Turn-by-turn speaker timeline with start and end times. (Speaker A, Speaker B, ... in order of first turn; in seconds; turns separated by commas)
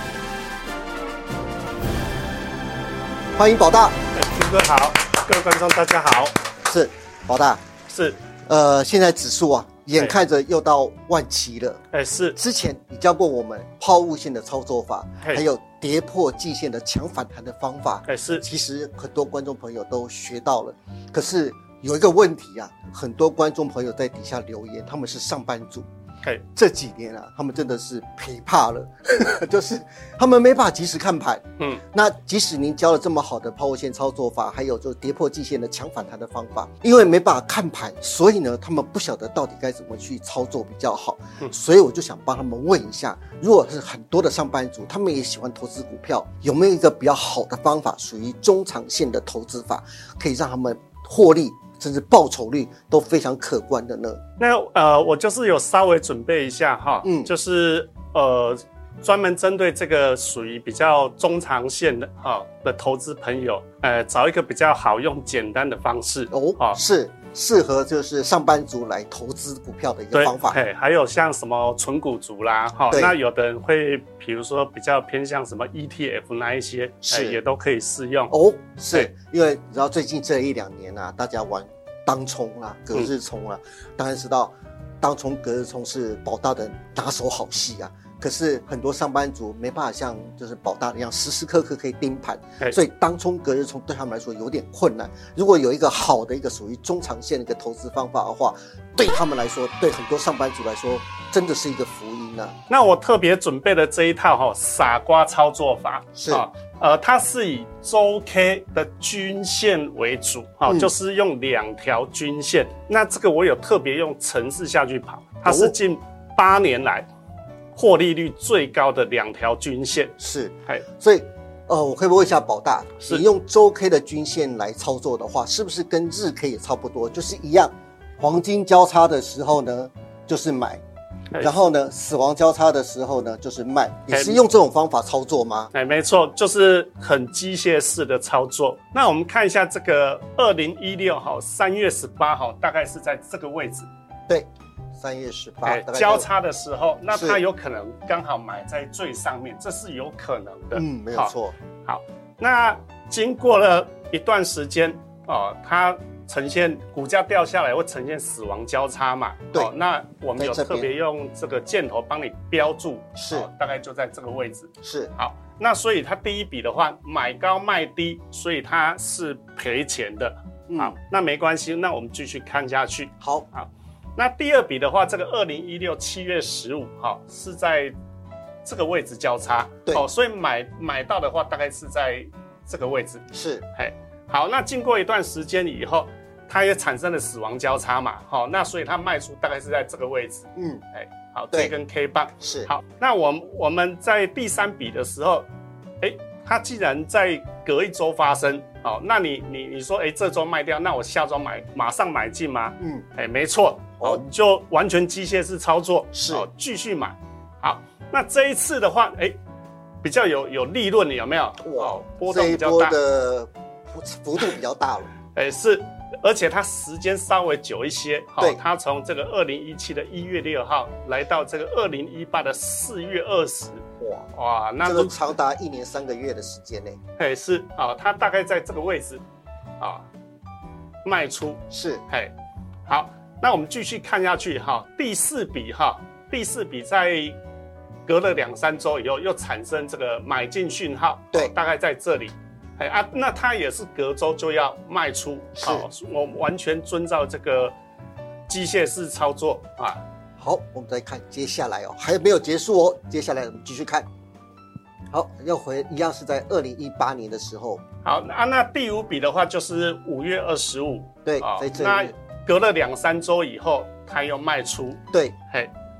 Speaker A: 3.4-4.0, Speaker B: 4.1-6.3, Speaker A: 6.7-7.7, Speaker B: 7.9-8.2, Speaker A: 8.5-11.8, Speaker B: 11.9-12.4, Speaker A: 12.3-25.9, Speaker B: 18.1-18.4, Speaker A: 26.6-54.2, Speaker B: 54.4-66.8, Speaker A: 57.0-57.3, Speaker A: 66.3-70.6, Speaker B: 70.1-78.3, Speaker A: 72.9-73.2, Speaker A: 77.1-77.4, Speaker A: 78.3-102.5, Speaker B: 102.7-117.1, Speaker A: 106.2-106.5, Speaker A: 115.5-115.8, Speaker B: 117.7-120.2, Speaker A: 120.2-130.8, Speaker A: 131.4-135.7, Speaker B: 134.1-134.4, Speaker B: 135.7-143.9, Speaker A: 144.3-146.3, Speaker B: 145.6-177.9, Speaker A: 147.1-147.4, Speaker A: 150.7-151.5, Speaker A: 160.4-160.9, Speaker A: 163.2-163.5, Speaker A: 164.8-165.1, Speaker A: 170.7-171.0, Speaker A: 173.2-173.5, Speaker B: 178.6-183.2, Speaker A: 183.3-183.7, Speaker B: 183.8-195.5, Speaker A: 190.6-190.8, Speaker A: 192.4-192.7, Speaker B: 196.0-209.4, Speaker A: 202.8-203.1, Speaker A: 206.1-206.5, Speaker B: 210.0-213.0, Speaker A: 211.6-215.1, Speaker B: 215.3-225.2, Speaker A: 224.0-224.3, Speaker A: 224.8-227.0, Speaker B: 227.2-229.2, Speaker B: 229.8-230.1, Speaker B: 231.0-232.3, Speaker A: 231.7-232.0, Speaker B: 232.9-237.4, Speaker B: 238.1-247.8, Speaker A: 245.6-245.9, Speaker B: 248.5-250.0, Speaker A: 250.4-254.1, Speaker A: 255.1-257.8, Speaker B: 258.0-265.7, Speaker A: 261.2-262.1, Speaker A: 265.1-265.4